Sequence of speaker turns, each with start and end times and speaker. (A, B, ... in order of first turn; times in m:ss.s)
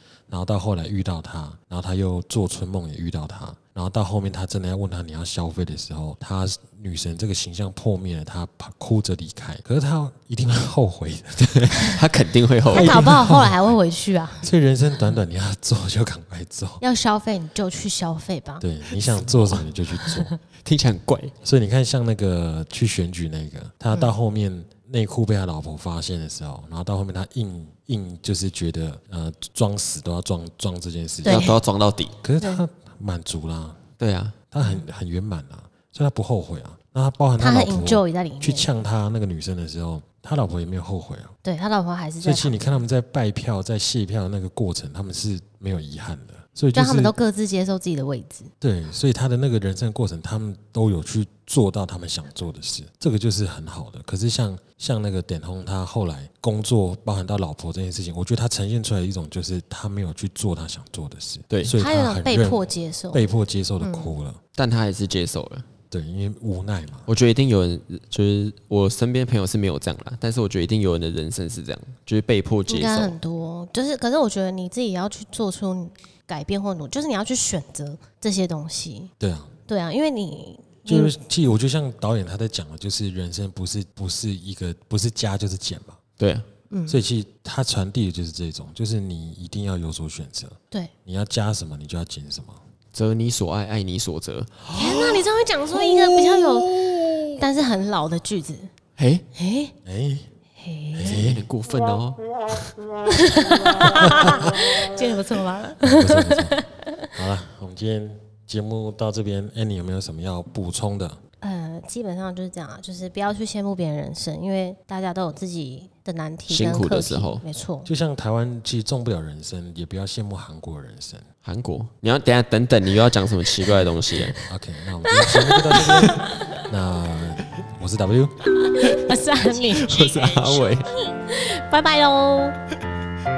0:00.3-0:11.9 A
0:11.4-0:13.3 B
0:12.7-0:13.5 A
0:12.7-0:14.5 C
0:14.4-0:16.8 A
0:16.8-0:20.4 C
0:18.6-0:20.3 A
0:20.6-0:21.3 B
0:21.4-0:31.6 A
0:31.2-0:32.2 B
0:31.2-0:31.6 C
0:32.2-0:33.8 A
0:32.4-0:32.6 C
0:34.0-0:34.4 B
0:34.5-0:41.3 A
0:37.4-0:38.7 C
0:41.4-0:42.8 C
0:42.2-0:47.1 A
0:46.7-0:48.5 C
0:48.6-1:04.4 A
1:01.5-1:01.8 B
1:01.8-1:03.2 C
1:03.8-1:04.1 C
1:04.6-1:05.7 B
1:05.9-1:07.1 A
1:07.1-1:13.2 B
1:12.7-1:19.1 C
1:19.2-1:19.5 A
1:19.7-1:21.1 C
1:20.9-1:26.0 A
1:26.2-1:26.5 B
1:26.7-1:27.0 C
1:26.9-1:32.6 A
1:32.9-1:35.2 B
1:34.7-1:38.7 C
1:39.0-1:39.2 B
1:39.3-1:39.7 C
1:39.8-1:40.2 A
1:40.6-1:41.2 C
1:41.0-1:41.4 A
1:41.0-1:42.2 B
1:43.1-1:47.1 C
1:44.0-1:44.3 A
1:45.8-1:46.6 A
1:47.1-1:51.2 A
1:51.4-1:57.9 C
1:56.5-1:57.4 B
1:57.8-2:01.3 A
2:01.4-2:04.4 B
2:04.4-2:08.4 A
2:05.1-2:06.6 C
2:08.6-2:12.6 C
2:08.8-2:10.9 B